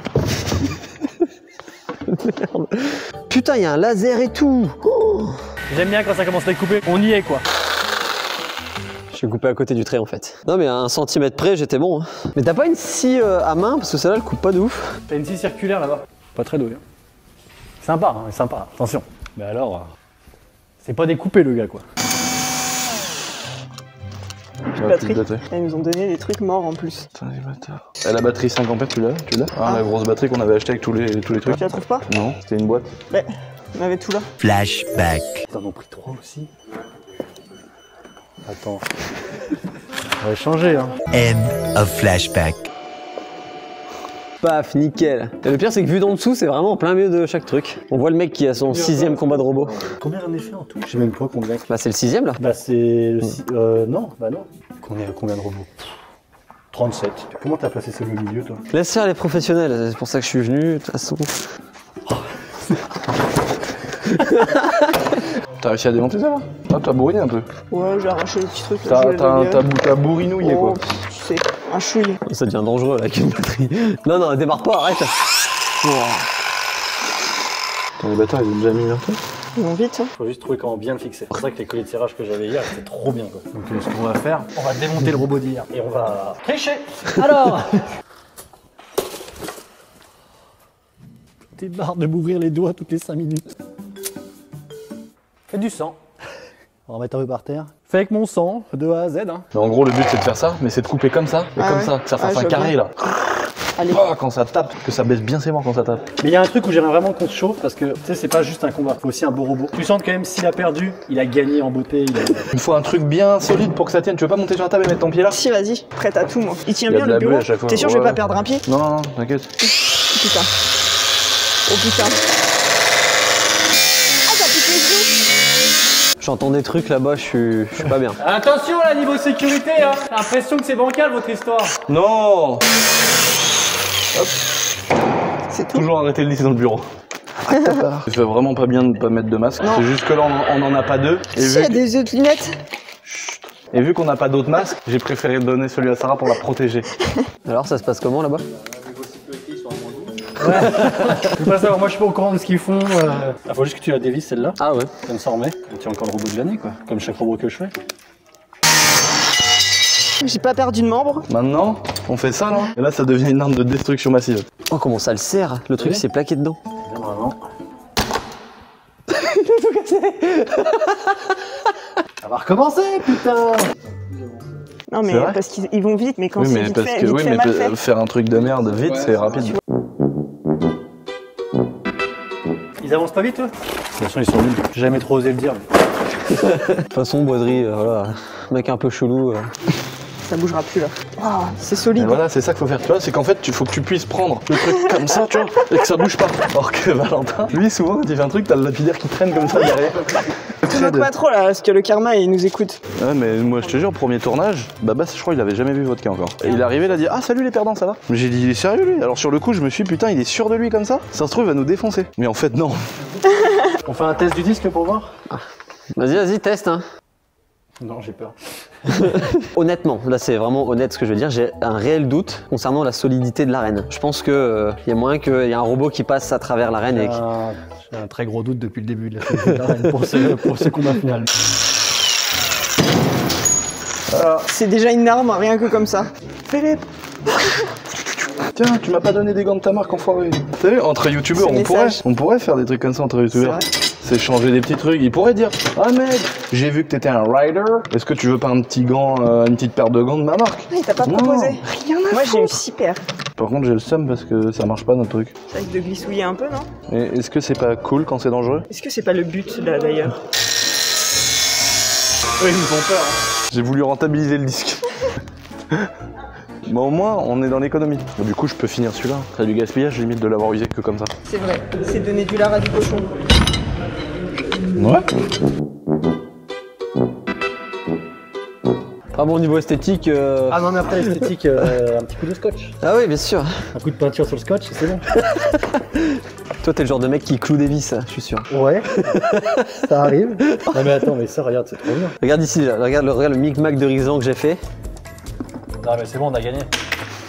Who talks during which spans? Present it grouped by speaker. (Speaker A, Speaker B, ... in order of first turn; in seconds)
Speaker A: 2.1-5.4, 9.1-15.0, 44.4-49.7, 51.7-52.4, 58.7-61.5, 64.2-65.0, 72.2-75.2, 126.2-128.2, 147.4-148.4, 150.4-151.3, 154.6-154.9, 164.7-166.6, 169.1-171.1, 186.4-189.5, 215.9-216.8, 218.9-227.2, 279.1-280.7, 282.8-283.7, 285.2-289.6, 292.2-294.6
Speaker B: 5.7-7.4, 15.1-16.8, 17.8-19.9, 20.8-21.8, 35.5-36.5, 38.4-38.8, 40.2-41.0, 48.7-51.6, 52.4-55.9, 56.7-58.6, 80.2-87.9, 91.6-93.5, 95.5-96.0, 96.9-99.5, 106.2-112.5, 128.2-131.8, 149.2-157.7, 166.8-167.4, 172.2-173.7, 182.8-185.6, 213.8-215.1, 217.8-219.2, 226.9-231.3, 262.6-263.1, 280.5-282.8, 283.7-285.1, 288.5-292.2, 295.8-296.7
Speaker C: 24.8-25.4, 27.1-33.0, 65.6-67.5, 68.8-70.8, 78.0-79.2, 99.5-103.3, 103.8-106.0, 112.5-115.4, 116.9-119.5, 131.9-132.6, 135.7-136.8, 137.4-141.8, 143.1-146.9, 161.3-164.5, 175.1-175.4, 176.4-179.6, 191.9-201.1, 202.9-212.9, 234.1-234.4, 236.5-236.8, 238.5-252.6, 253.3-255.3, 256.9-258.7, 262.4-264.9, 266.6-271.1, 274.8-275.1
Speaker D: 24.8-27.1, 31.5-32.0, 33.1-34.3, 67.7-69.7, 70.4-72.2, 79.5-80.1, 101.6-102.7, 103.8-104.0, 115.3-118.6, 119.6-120.5, 121.7-122.3, 124.2-125.1, 135.5-135.8, 137.5-137.8, 141.3-142.5, 160.2-161.3, 174.9-177.7, 190.2-192.2, 200.7-202.8, 234.5-236.1, 241.3-242.0, 243.3-243.7, 250.7-253.0, 255.5-256.7, 258.7-260.1, 271.3-273.2
Speaker E: 34.4-35.4, 41.1-42.7